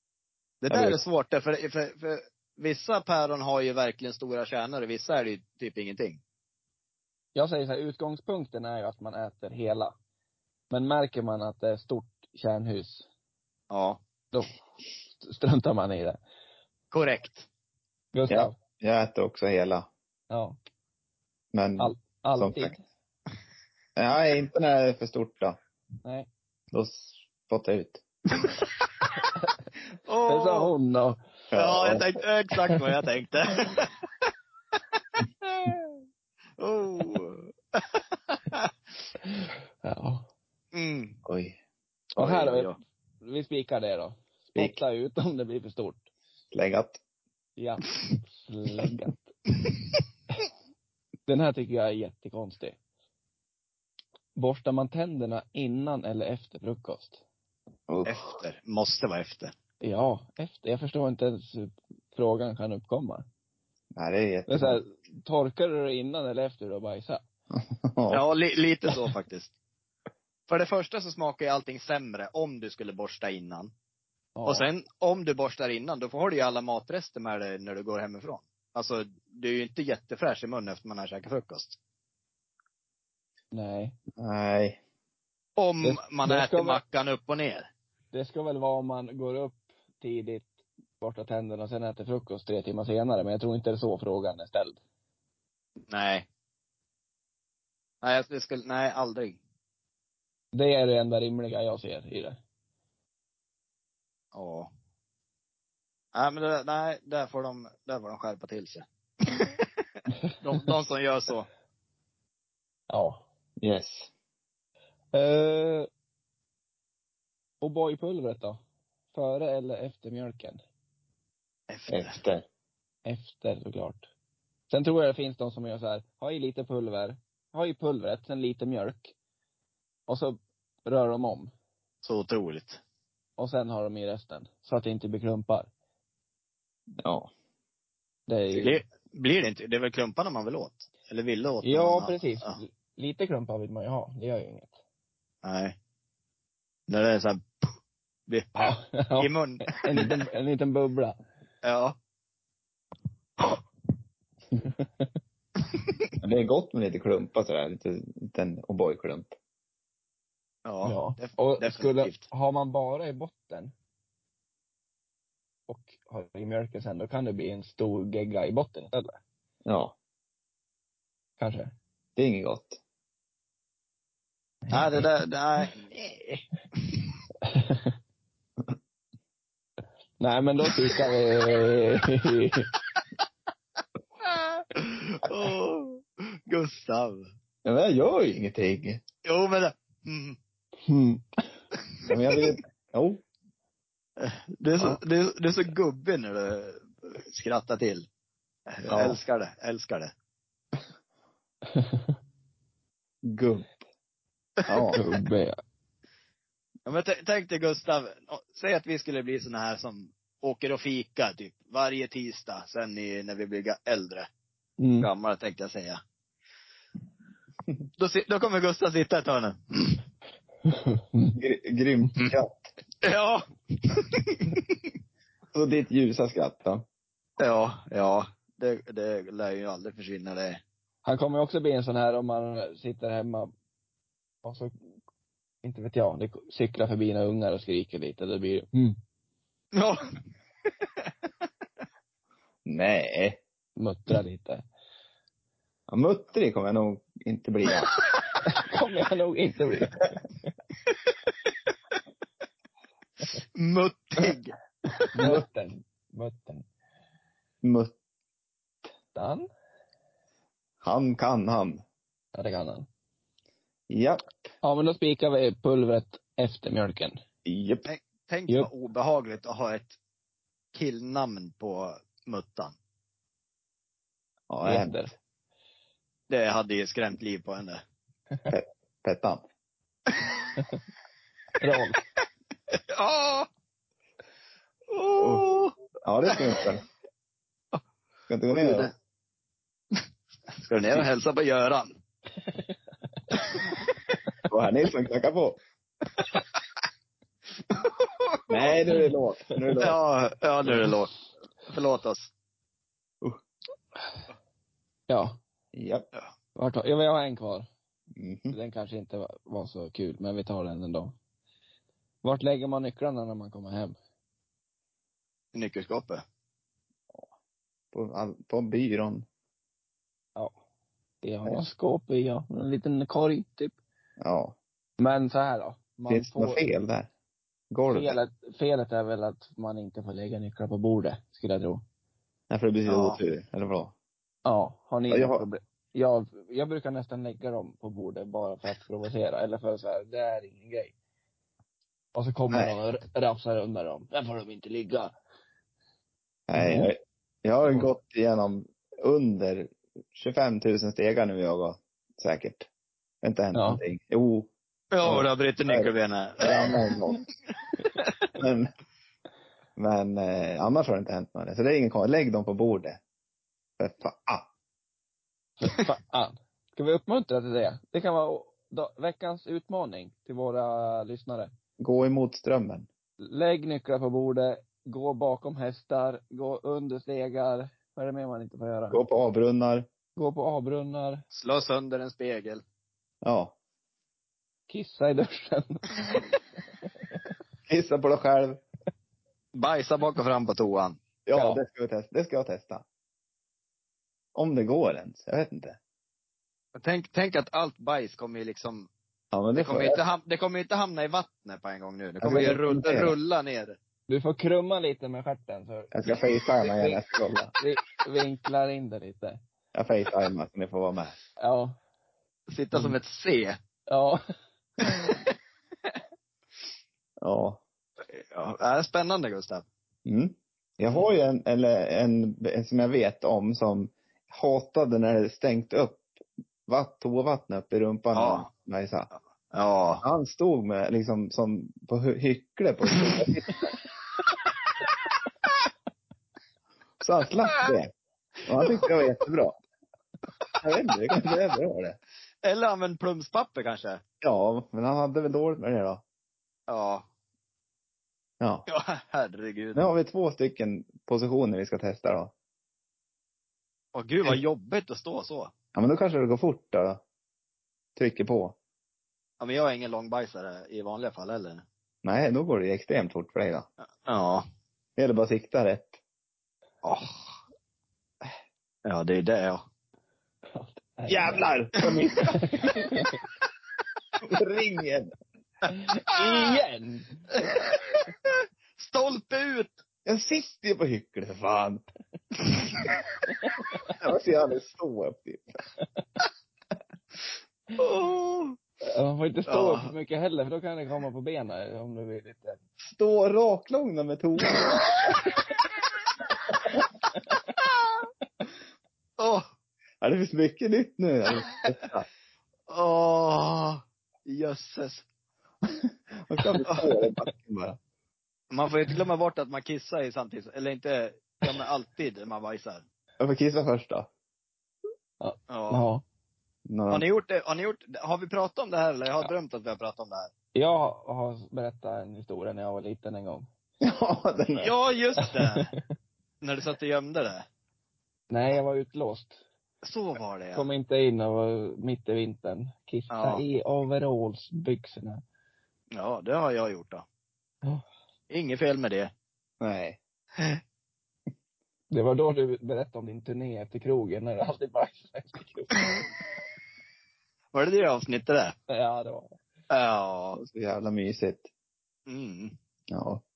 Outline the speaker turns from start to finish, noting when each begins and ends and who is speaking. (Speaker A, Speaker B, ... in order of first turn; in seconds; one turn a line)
Speaker A: 0.6-6.2
Speaker B: 0.7-1.0
Speaker C: 7.3-9.9
Speaker C: 10.7-13.1
Speaker A: 13.7-14.0
Speaker C: 15.2-16.2
Speaker A: 16.9-17.4
Speaker C: 18.1-18.5
Speaker B: 18.3-19.9
Speaker C: 20.3-20.6
Speaker B: 21.5-22.7
Speaker C: 21.8-22.8
Speaker B: 24.0-25.6
Speaker B: 26.7-28.0
Speaker A: 30.1-30.7
Speaker C: 30.3-31.2
Speaker B: 31.5-32.0
Speaker A: 31.5-33.9
Speaker A: 36.6-38.7
Speaker C: 39.3-40.2
Speaker A: 40.7-41.2
Speaker B: 41.2-41.6
Speaker A: 42.2-42.7
Speaker C: 42.2-46.0
Speaker B: 46.5-47.0
Speaker C: 47.6-49.3
Speaker C: 51.3-52.8
Speaker C: 54.4-57.2
Speaker B: 57.9-58.2
Speaker A: 58.0-59.5
Speaker C: 59.8-63.2
Speaker B: 63.9-64.8
Speaker C: 64.5-67.2
Speaker B: 67.5-68.2
Speaker A: 68.1-69.5
Speaker A: 70.5-73.7
Speaker C: 74.3-74.7
Speaker A: 74.5-81.8
Speaker C: 83.5-84.0
Speaker B: 84.2-84.8
Speaker A: 85.6-87.7
Speaker C: 85.8-86.8
Speaker C: 88.1-90.5
Speaker C: 91.0-94.8
Speaker A: 95.9-96.2
Speaker A: 98.0-99.4
Speaker C: 100.5-102.4
Speaker A: 104.3-104.7
Speaker A: 106.1-109.6
Speaker A: 110.4-111.5
Speaker C: 112.9-113.2
Speaker B: 113.6-114.1
Speaker C: 115.1-115.9
Speaker C: 117.6-118.6
Speaker C: 119.1-120.6
Speaker A: 121.7-122.2
Speaker B: 121.9-122.4
Speaker C: 123.0-124.0
Speaker C: 124.7-129.1
Speaker C: 130.1-131.5
Speaker A: 132.0-132.8
Speaker C: 133.4-135.7
Speaker B: 137.0-137.3
Speaker C: 138.3-138.8
Speaker A: 138.6-142.6
Speaker C: 141.6-144.7
Speaker A: 145.4-145.7
Speaker A: 146.9-147.7
Speaker A: 148.3-150.1
Speaker C: 148.6-151.2
Speaker A: 151.6-151.9
Speaker B: 156.2-159.3
Speaker A: 160.7-162.2
Speaker C: 160.8-163.7
Speaker C: 165.7-169.1
Speaker B: 169.6-169.9
Speaker C: 171.4-171.7
Speaker B: 172.2-172.8
Speaker A: 174.7-177.0
Speaker C: 177.4-177.9
Speaker C: 180.2-182.7
Speaker A: 184.3-187.3
Speaker B: 187.6-189.0
Speaker A: 189.2-190.4
Speaker C: 190.8-191.4
Speaker B: 192.1-193.2
Speaker A: 194.2-198.1
Speaker A: 198.7-200.1
Speaker B: 198.9-199.2
Speaker C: 201.7-202.1
Speaker B: 203.2-203.8
Speaker A: 204.6-204.9
Speaker B: 204.7-205.0
Speaker C: 204.9-205.6
Speaker A: 206.8-214.3
Speaker C: 214.8-215.1
Speaker A: 215.0-216.0
Speaker A: 218.0-220.0
Speaker C: 220.7-221.3
Speaker B: 221.3-222.7
Speaker A: 223.0-224.6
Speaker B: 225.5-226.8
Speaker A: 227.4-230.6
Speaker C: 231.0-233.5
Speaker C: 234.4-234.7
Speaker C: 235.6-239.0
Speaker A: 239.7-240.2
Speaker B: 242.7-243.4
Speaker C: 243.8-244.6
Speaker B: 245.9-247.9
Speaker C: 248.4-250.2
Speaker A: 253.6-255.0
Speaker C: 255.1-256.6
Speaker B: 255.2-255.4
Speaker B: 257.6-257.9
Speaker C: 259.1-259.5
Speaker B: 260.8-261.8
Speaker C: 262.3-262.9
Speaker B: 263.9-264.4
Speaker C: 264.6-267.2
Speaker B: 267.4-267.8
Speaker A: 267.9-270.0
Speaker A: 270.7-272.7
Speaker B: 274.5-275.1
Speaker C: 274.6-275.1
Speaker A: 276.3-277.8
Speaker B: 278.5-279.4
Speaker A: 280.1-280.5
Speaker C: 281.6-282.0
Speaker A: 282.7-283.5
Speaker A: 284.9-285.7
Speaker B: 285.2-285.5
Speaker B: 286.0-286.8
Speaker A: 286.3-286.6
Speaker B: 288.3-288.9
Speaker A: 288.5-288.9
Speaker A: 290.6-291.9
Speaker B: 294.5-295.6
Speaker A: 297.7-298.7
Speaker B: 298.5-300.0
Speaker A: 299.8-302.3
Speaker C: 305.1-305.4
Speaker B: 305.7-306.1
Speaker C: 306.6-307.7
Speaker B: 308.1-308.6
Speaker C: 308.5-311.1
Speaker C: 312.2-313.9
Speaker A: 315.5-316.2
Speaker B: 317.9-319.2
Speaker C: 321.2-323.7
Speaker B: 324.2-324.6
Speaker C: 325.0-326.6
Speaker B: 326.1-327.1
Speaker B: 327.7-328.2
Speaker C: 327.9-331.8
Speaker B: 332.5-333.9
Speaker A: 332.9-333.2
Speaker C: 334.4-340.9
Speaker B: 335.1-335.4
Speaker C: 342.1-345.1
Speaker B: 346.5-352.7
Speaker C: 346.5-346.9
Speaker B: 353.2-354.5
Speaker C: 353.5-353.8
Speaker A: 354.9-356.9
Speaker B: 355.0-357.2
Speaker B: 358.4-358.7
Speaker B: 359.8-363.0
Speaker B: 363.8-364.5
Speaker C: 365.6-371.5
Speaker B: 371.8-372.9
Speaker C: 373.2-379.0
Speaker B: 378.9-379.9
Speaker C: 380.1-381.2
Speaker A: 381.3-382.6
Speaker B: 383.2-383.5
Speaker C: 384.7-386.2
Speaker B: 387.6-388.6
Speaker A: 389.5-391.0
Speaker B: 391.2-392.8
Speaker C: 391.3-391.6
Speaker B: 394.3-395.8
Speaker A: 396.8-398.9
Speaker B: 399.3-400.0
Speaker A: 399.6-403.8
Speaker B: 402.2-403.1
Speaker C: 404.1-407.0
Speaker B: 405.9-407.5
Speaker C: 407.6-409.4
Speaker B: 409.7-411.1
Speaker C: 411.4-411.8
Speaker A: 412.5-413.6
Speaker C: 413.9-414.2
Speaker A: 414.9-415.2
Speaker B: 417.2-417.6
Speaker A: 418.1-419.6
Speaker B: 420.1-426.1
Speaker B: 426.7-429.1
Speaker A: 428.1-428.5
Speaker A: 429.5-430.0
Speaker B: 430.0-433.6
Speaker B: 437.0-437.9
Speaker B: 438.4-439.6
Speaker A: 438.6-438.9
Speaker B: 440.6-442.0
Speaker A: 442.4-444.0
Speaker B: 444.2-446.0
Speaker A: 446.7-447.0
Speaker B: 448.4-448.6
Speaker A: 448.7-449.8
Speaker B: 449.7-452.3
Speaker A: 453.9-455.5
Speaker B: 455.7-457.0
Speaker B: 457.9-458.6
Speaker A: 459.4-461.6
Speaker B: 462.0-463.7
Speaker A: 464.1-464.4
Speaker B: 464.9-466.0
Speaker A: 466.8-467.3
Speaker A: 468.8-469.6
Speaker C: 470.5-471.5
Speaker B: 471.1-472.3
Speaker A: 471.8-472.1
Speaker C: 472.1-473.1
Speaker B: 474.2-475.1
Speaker C: 475.7-477.3
Speaker A: 476.1-476.6
Speaker A: 477.4-479.7
Speaker B: 480.1-481.8
Speaker C: 483.4-483.9
Speaker B: 483.9-485.4
Speaker A: 487.8-488.6
Speaker C: 488.9-492.6
Speaker A: 489.5-489.9
Speaker B: 492.8-494.8
Speaker A: 499.2-499.4
Speaker B: 500.0-502.1
Speaker A: 502.7-505.0
Speaker B: 506.2-507.8
Speaker A: 506.6-506.9
Speaker A: 508.5-512.8
Speaker B: 513.2-514.1
Speaker C: 515.2-516.0
Speaker A: 515.5-515.8
Speaker B: 516.7-517.0
Speaker A: 516.9-520.3
Speaker C: 520.5-523.5
Speaker B: 523.8-524.7
Speaker A: 524.6-525.7
Speaker C: 525.2-525.8
Speaker A: 526.4-527.4
Speaker C: 528.3-529.4
Speaker A: 529.8-530.7
Speaker C: 530.5-535.2
Speaker A: 533.1-533.4
Speaker A: 535.9-537.0
Speaker A: 538.3-539.1
Speaker B: 539.6-540.0
Speaker C: 541.9-546.0
Speaker A: 547.5-548.5
Speaker C: 548.7-549.4
Speaker A: 549.7-550.4
Speaker B: 550.3-551.5
Speaker A: 552.1-552.5
Speaker B: 552.9-553.2